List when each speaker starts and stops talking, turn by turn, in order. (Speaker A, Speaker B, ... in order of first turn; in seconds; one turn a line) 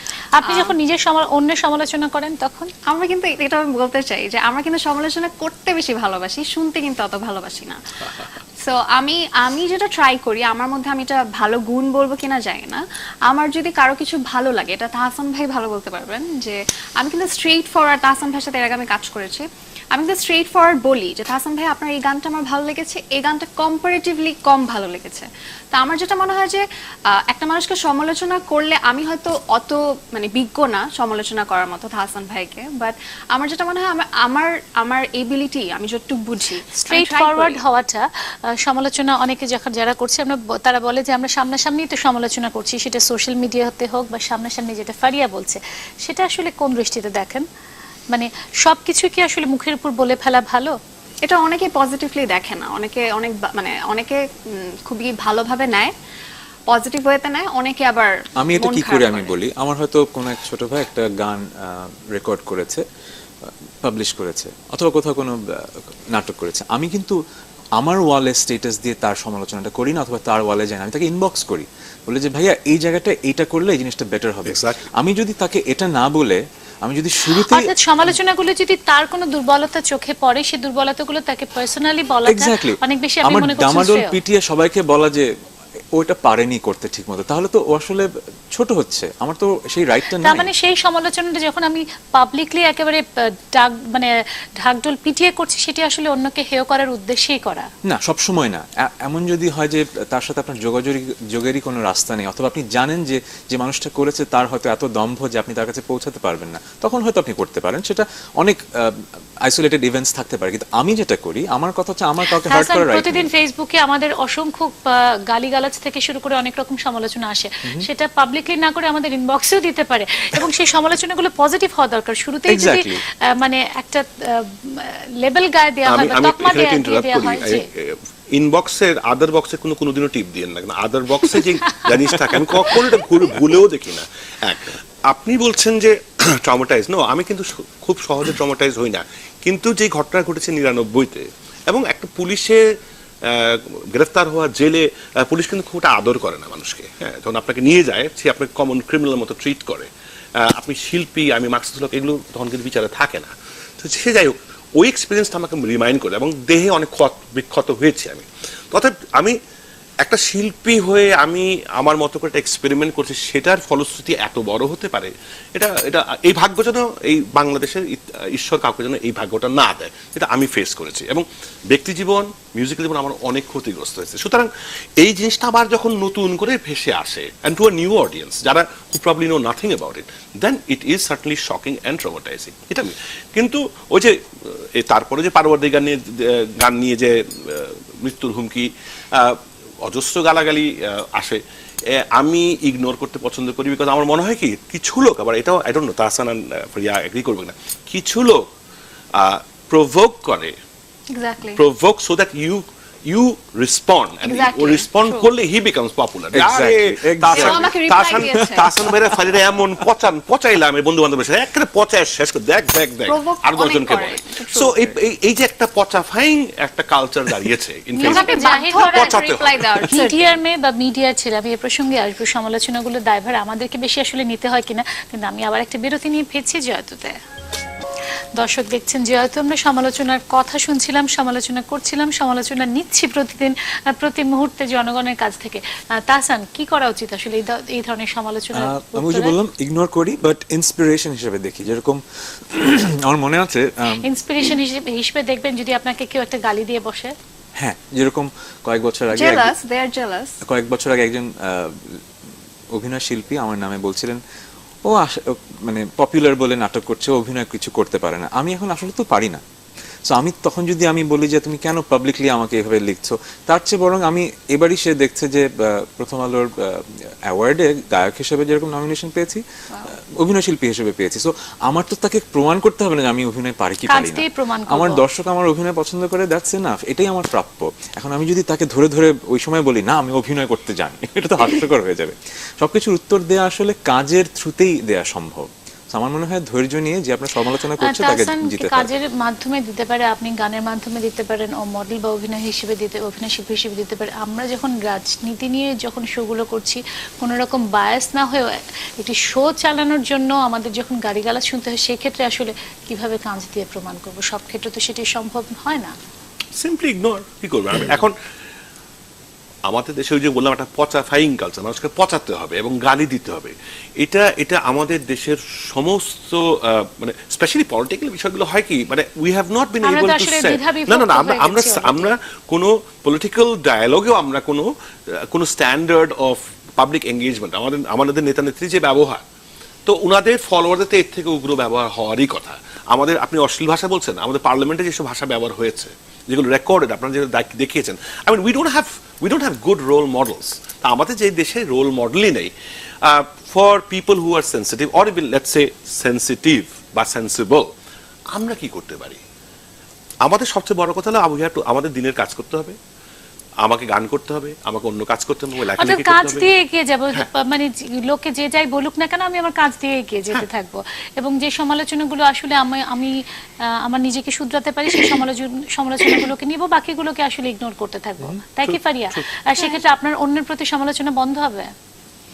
Speaker A: 0.4-2.7
Speaker B: 0.4-0.7
Speaker B: 2.9-37.6
Speaker A: 36.8-38.0
Speaker A: 38.6-47.4
Speaker A: 48.1-50.8
Speaker B: 51.2-55.9
Speaker B: 56.7-59.3
Speaker C: 58.4-62.8
Speaker C: 63.5-67.2
Speaker C: 67.8-78.1
Speaker D: 74.5-74.8
Speaker A: 77.2-84.2
Speaker C: 82.3-85.3
Speaker C: 85.9-90.5
Speaker A: 90.2-97.7
Speaker C: 97.8-113.3
Speaker A: 112.4-127.6
Speaker C: 122.5-123.0
Speaker D: 125.9-142.6
Speaker A: 131.3-133.0
Speaker D: 143.2-149.9
Speaker D: 150.4-159.4
Speaker D: 160.0-174.5
Speaker D: 175.0-198.5
Speaker D: 199.1-200.5
Speaker B: 201.1-201.6
Speaker D: 201.6-219.9
Speaker B: 204.2-205.3
Speaker C: 206.3-209.3
Speaker B: 207.3-208.7
Speaker B: 213.1-214.9
Speaker A: 217.9-219.2
Speaker B: 218.0-220.3
Speaker A: 219.9-227.2
Speaker A: 228.3-239.3
Speaker C: 238.5-244.0
Speaker A: 244.0-247.1
Speaker C: 247.6-249.5
Speaker B: 249.1-250.3
Speaker C: 250.4-251.9
Speaker C: 252.7-254.2
Speaker C: 254.8-259.4
Speaker C: 260.1-288.9
Speaker A: 273.9-275.0
Speaker A: 287.8-305.9
Speaker D: 306.6-308.1
Speaker D: 309.6-329.2
Speaker A: 319.8-322.1
Speaker D: 329.9-342.5
Speaker D: 343.0-347.7
Speaker D: 348.3-349.2
Speaker D: 350.2-352.8
Speaker D: 353.6-356.5
Speaker A: 355.8-363.1
Speaker A: 363.8-371.7
Speaker D: 368.7-369.2